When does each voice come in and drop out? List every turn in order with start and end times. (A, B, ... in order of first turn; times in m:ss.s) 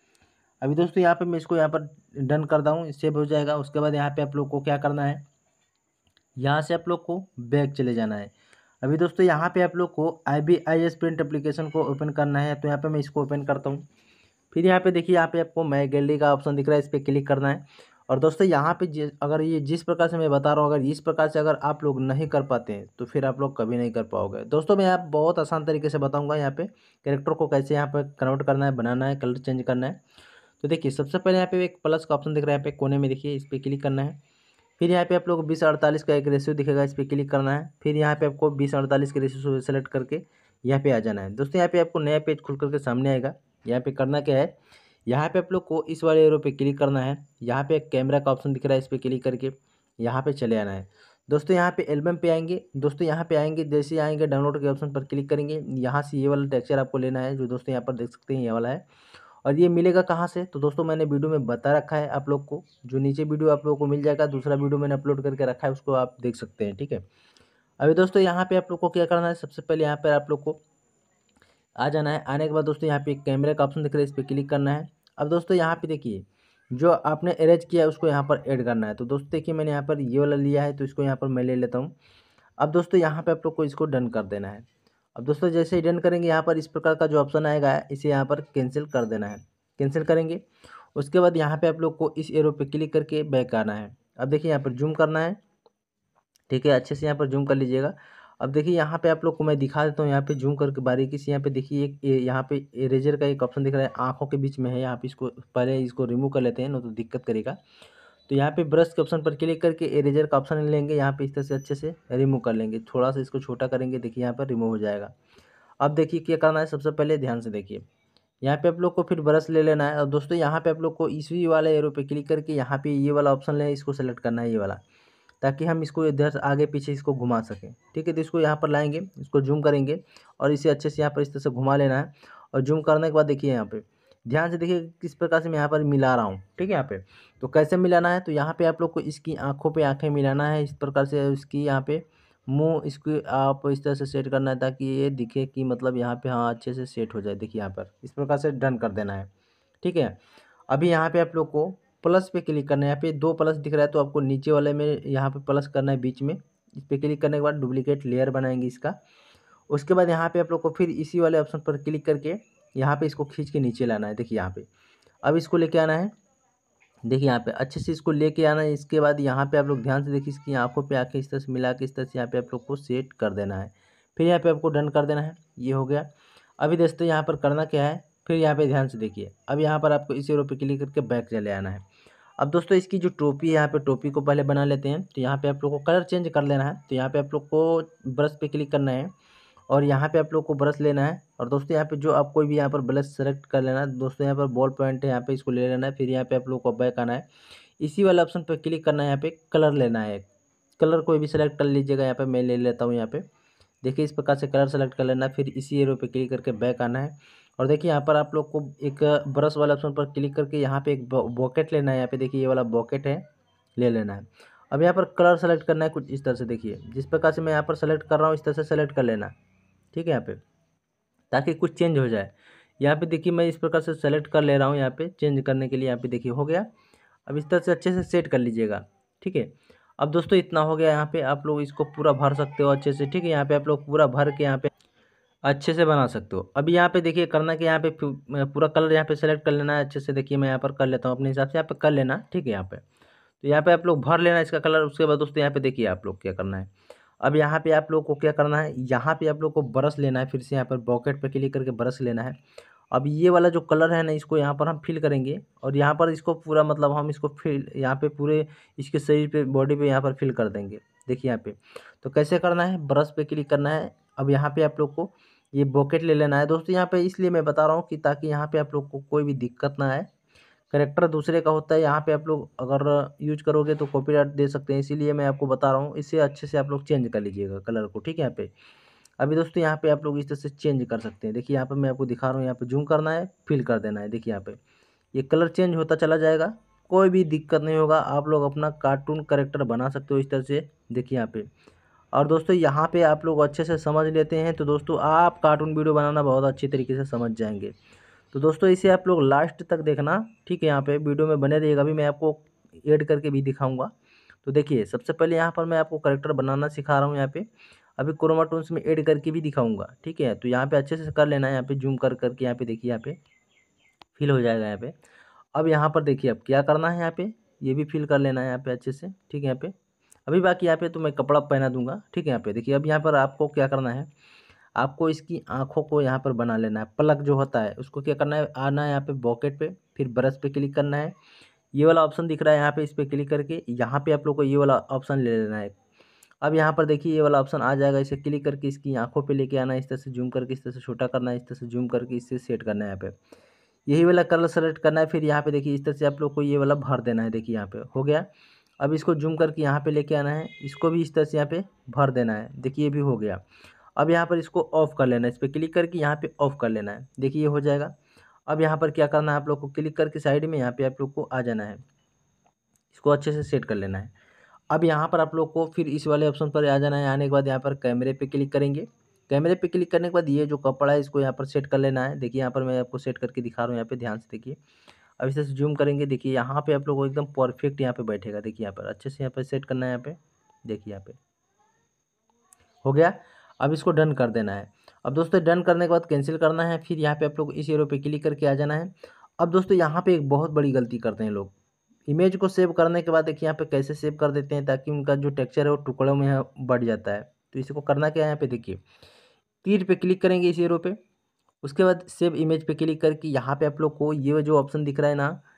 0:00.6-0:05.2 A
0:06.4-0:08.3 A
0:08.8-0:13.8 A
0:14.5-0:30.0 A
0:30.6-0:34.2 A
0:34.8-0:44.5 A
0:45.1-0:58.8 A
0:59.4-1:07.0 A
1:07.8-1:10.6 A
1:11.8-1:21.9 A
1:22.6-1:30.4 A
1:30.9-1:35.4 A
1:36.5-1:47.6 A
1:48.3-1:55.1 A
1:55.8-1:57.8 A
1:58.4-2:04.8 A
2:05.4-2:29.3 A
2:29.8-2:30.2 A
2:30.7-2:39.0 A
2:39.7-2:44.7 A
2:45.2-2:46.1 A
2:47.0-2:56.1 A
2:56.6-3:01.8 A
3:02.4-3:09.1 A
3:09.7-3:17.2 A
3:17.8-3:20.3 A
3:20.8-3:23.2 A
3:23.8-3:33.2 A
3:33.8-3:39.3 A
3:39.9-3:40.4 A
3:41.3-3:46.7 A
3:47.3-3:54.7 A
3:55.4-4:02.8 A
4:03.4-4:06.7 A
4:07.2-4:12.4 A
4:12.9-4:30.1 A
4:30.7-4:38.5 A
4:39.2-4:44.6 A
4:45.1-4:51.5 A
4:52.1-4:57.7 A
4:58.3-5:03.9 A
5:04.4-5:07.5 A
5:08.0-5:13.2 A
5:14.2-5:14.9 A
5:15.5-5:19.7 A
5:20.3-5:24.1 A
5:24.8-5:31.1 A
5:31.7-5:35.7 A
5:36.4-5:43.1 A
5:43.9-5:48.3 A
5:48.8-5:53.4 A
5:54.0-5:57.9 A
5:58.5-6:01.8 A
6:02.9-6:04.1 A
6:04.7-6:14.6 A
6:15.2-6:21.2 A
6:22.8-6:31.5 A
6:32.1-6:38.8 A
6:39.6-6:41.0 A
6:41.6-6:45.4 A